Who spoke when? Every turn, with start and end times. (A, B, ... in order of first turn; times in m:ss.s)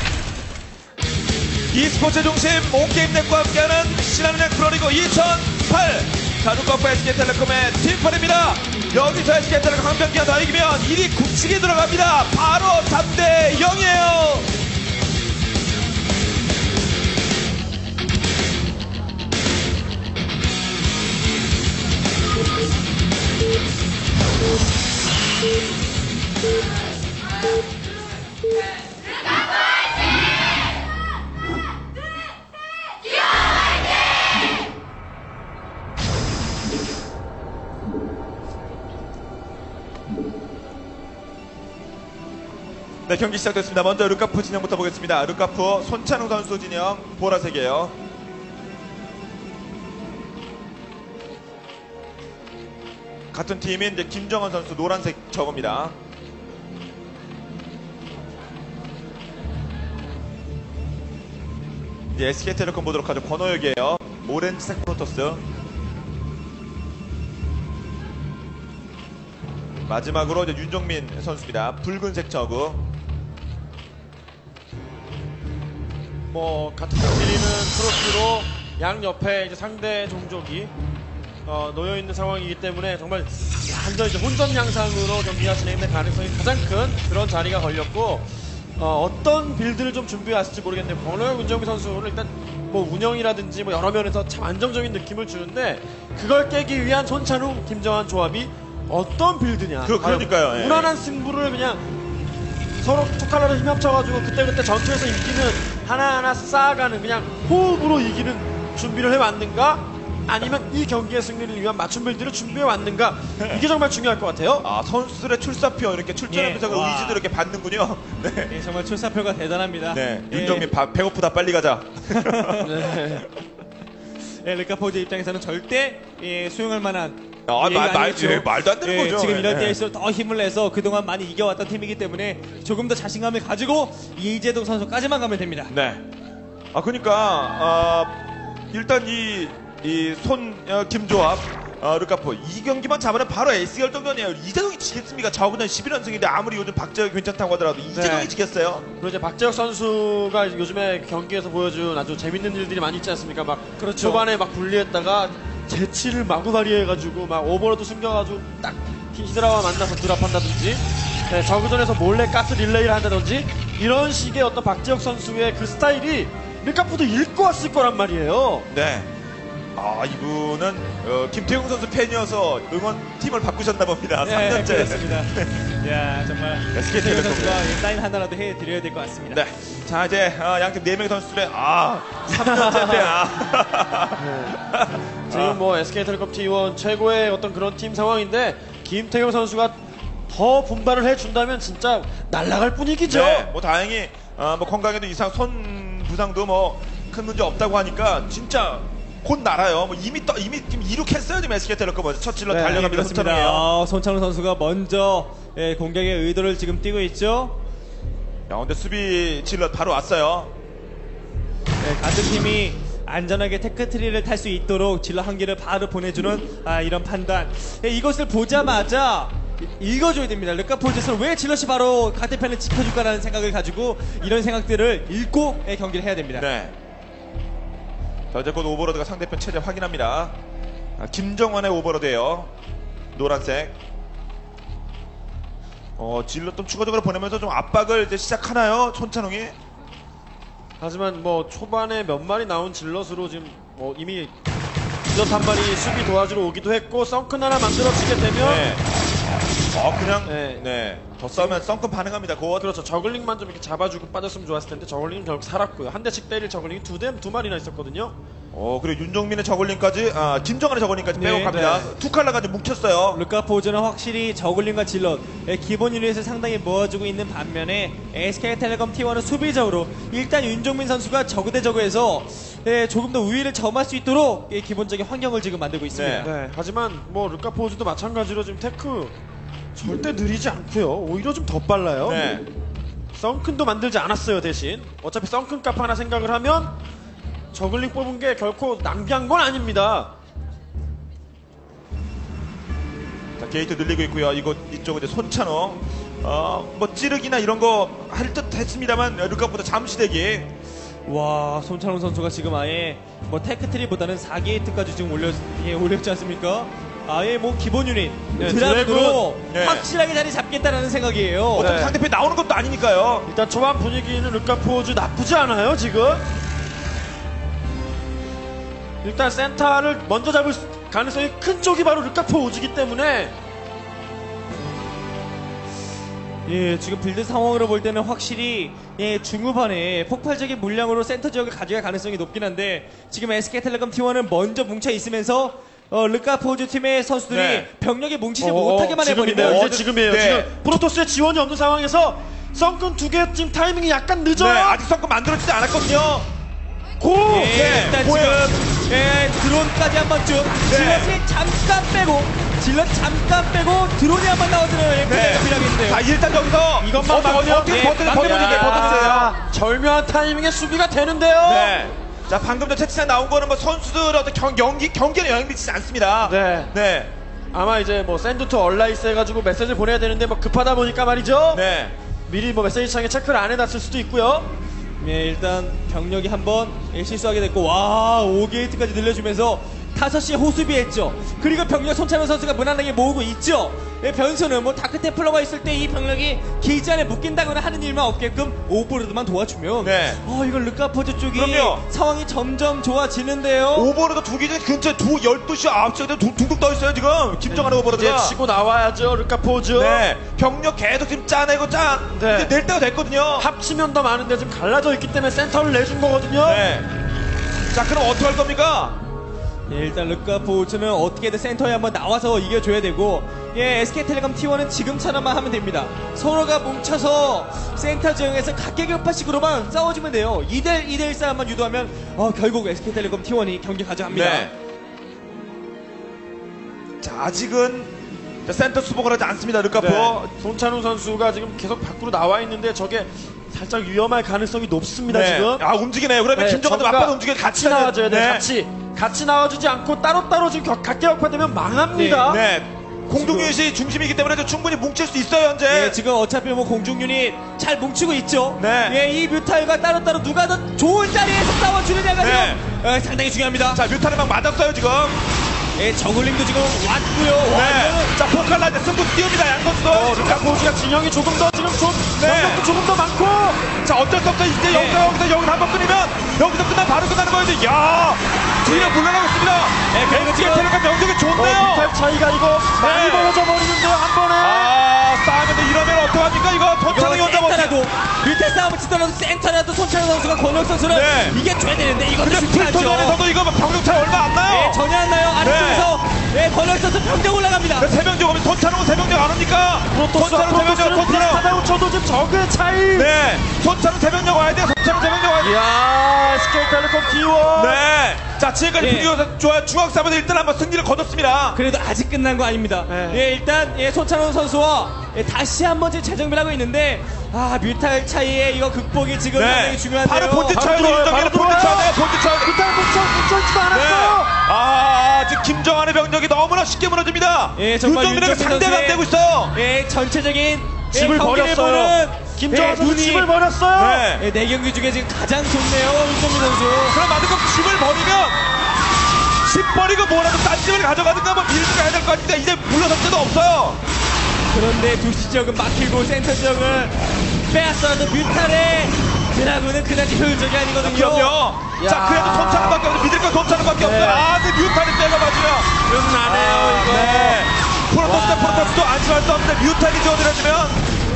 0:01.7-0:14.5 A
0:43.1-0:48.0 A
0:53.3-0:56.0 A
1:02.1-1:05.4 A
1:09.9-1:12.8 A
1:16.3-1:20.7 B
1:21.5-1:41.8 B
1:39.8-1:40.9 A
1:42.8-1:54.6 B
1:54.6-1:58.5 A
1:56.3-1:57.2 C
1:58.5-2:00.7 C
1:59.9-2:02.7 A
2:02.1-2:02.7 C
2:02.6-2:03.3 B
2:04.4-2:15.7 C
2:07.5-2:09.8 A
2:15.7-2:16.0 A
2:16.7-2:18.2 A
2:18.7-2:28.9 A
2:27.9-2:28.3 B
2:29.0-2:48.7 B
2:33.8-2:34.2 C
2:48.7-2:49.1 A
2:49.8-2:55.5 A
2:54.2-2:59.4 C
2:56.7-2:57.6 A
2:59.3-3:05.6 A
3:02.3-3:03.2 B
3:04.2-3:04.6 B
3:05.3-3:09.8 B
3:10.3-3:13.5 B
3:13.1-3:23.7 A
3:22.5-3:22.8 B
3:22.5-3:27.6 C
3:28.5-3:30.5 A
3:31.8-3:46.5 C
3:46.4-3:46.7 A
3:48.3-3:50.4 A
3:51.0-3:52.5 A
3:53.1-3:53.7 A
3:56.0-3:59.6 A
4:00.8-4:04.3 B
4:05.1-4:08.7 B
4:08.4-4:08.8 A
4:09.7-4:12.7 A
4:10.2-4:10.6 B
4:11.4-4:11.6 B
4:12.6-4:18.2 B
4:18.5-4:23.2 A
4:21.2-4:21.9 C
4:23.1-4:36.3 C
4:35.9-4:36.3 A
4:36.2-4:39.2 B
4:39.8-4:42.4 B
4:42.0-4:42.5 A
4:43.1-4:46.7 B
4:47.5-4:50.1 B
4:53.4-5:00.5 A
5:01.1-5:11.7 C
5:08.4-5:09.3 B
5:09.5-5:09.9 A
5:11.6-5:12.0 B
5:11.6-5:13.3 A
5:13.3-5:16.3 B
5:19.0-5:23.3 B
5:26.5-5:39.7 C
5:37.3-5:37.7 A
5:38.4-5:44.8 B
5:39.4-5:40.5 A
5:44.4-5:46.3 A
5:47.0-5:47.5 B
5:47.3-5:56.0 C
5:47.3-5:48.5 A
5:50.7-5:51.1 A
5:55.1-5:59.3 A
5:56.8-6:01.9 B
5:57.6-5:59.2 C
6:01.4-6:07.1 A
6:06.2-6:06.7 B
6:07.5-6:11.6 B
6:11.5-6:11.9 A
6:12.3-6:14.5 B
6:15.0-6:33.9 C
6:29.8-6:30.2 A
6:31.3-6:31.8 A
6:33.7-6:38.4 A
6:37.5-6:40.1 B
6:39.7-6:43.5 A
6:42.1-6:42.5 B
6:43.4-6:46.6 B
6:46.4-6:46.9 A
6:47.7-6:49.0 A
6:49.7-7:04.5 C
7:04.1-7:04.5 A
7:07.0-7:07.9 A
7:08.4-7:10.3 A
7:09.8-7:15.6 B
7:15.1-7:18.5 A
7:16.3-7:22.4 B
7:21.9-7:22.3 C
7:22.3-7:26.0 A
7:23.1-7:23.5 B
7:25.7-7:33.8 C
7:28.6-7:29.0 A
7:32.2-7:32.6 A
7:33.7-7:35.2 A
7:35.8-7:38.2 C
7:37.5-7:40.5 A
7:39.9-7:43.7 B
7:42.2-7:42.6 A
7:43.8-7:51.9 A
7:44.7-7:45.1 C
7:48.6-7:49.0 C
7:49.9-7:50.7 C
7:51.4-7:54.8 B
7:52.8-7:53.4 A
7:54.4-7:57.8 A
7:56.9-8:03.2 C
8:00.9-8:01.4 A
8:02.2-8:04.8 A
8:04.4-8:07.9 C
8:05.4-8:05.9 A
8:07.8-8:11.5 A
8:09.9-8:13.1 B
8:12.9-8:15.6 A
8:15.4-8:17.8 B
8:17.5-8:21.6 A
8:18.8-8:19.1 C
8:21.5-8:30.6 C
8:22.9-8:23.2 B
8:29.3-8:32.5 A
8:30.5-8:34.3 B
8:33.7-8:39.6 A
8:37.6-8:43.3 C
8:40.9-8:44.1 B
8:43.8-8:44.2 A
8:44.2-8:47.0 C
8:46.9-8:48.4 A
8:49.4-8:53.8 A
8:54.5-8:57.0 C
8:57.5-9:01.4 C
9:00.8-9:10.8 A
9:01.8-9:02.9 B
9:03.8-9:04.3 B
9:05.8-9:07.5 B
9:08.0-9:08.8 B